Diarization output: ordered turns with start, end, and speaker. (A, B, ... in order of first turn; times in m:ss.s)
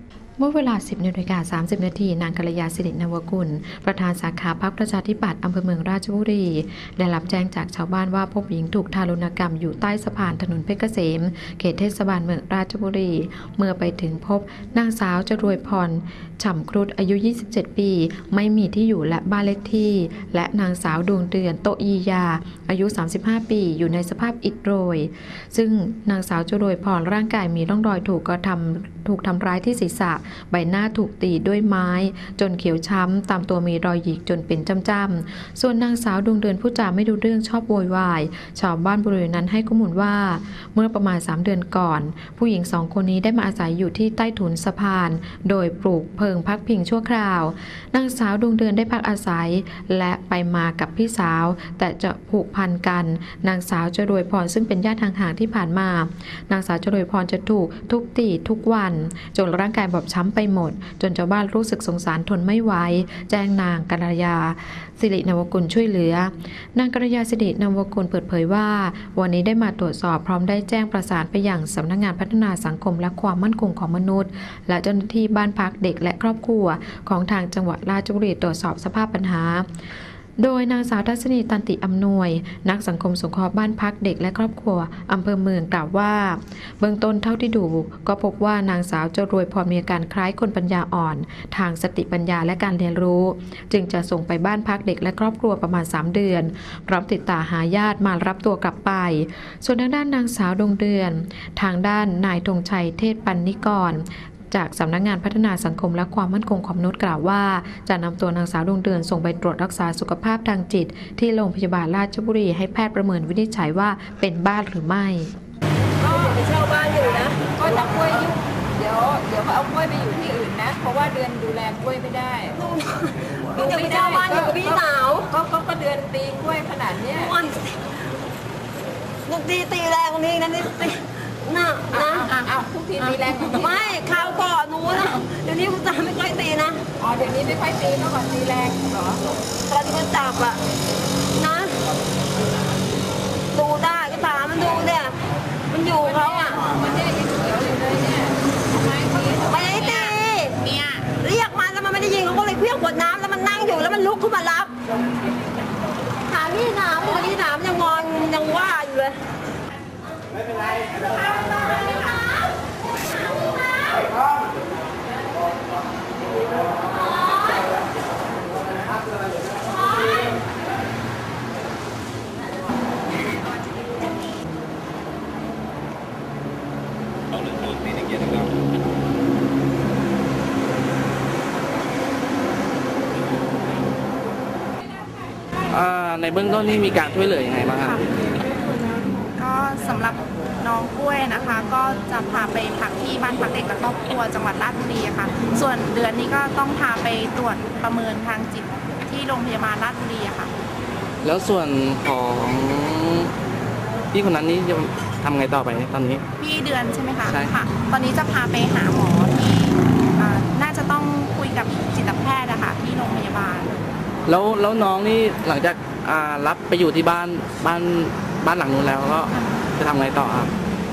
0:00.4-1:19.7 A
1:20.4-1:55.3 A
1:56.0-1:56.4 B
1:56.1-1:57.6 C
1:57.1-2:02.6 B
2:02.5-2:05.3 C
2:03.5-2:07.3 B
2:07.1-2:07.9 C
2:09.3-2:12.3 C
2:11.9-2:13.9 B
2:13.5-2:16.8 C
2:17.0-2:19.2 B
2:19.7-2:20.6 C
2:21.3-2:21.8 C
2:23.5-2:25.2 C
2:25.7-2:26.6 C
2:26.0-2:30.0 B
2:29.4-2:30.6 C
2:29.8-2:31.1 D
2:31.1-2:34.7 C
2:36.3-2:39.2 C
2:41.0-2:41.7 D
2:41.9-2:42.2 C
2:47.2-2:47.6 C
3:05.7-3:08.1 E
3:09.4-3:20.5 D
3:21.2-3:23.3 E
3:24.1-3:26.2 E
3:26.4-3:33.8 D
3:27.2-3:27.5 E
3:34.2-3:40.5 E
3:39.3-3:39.6 D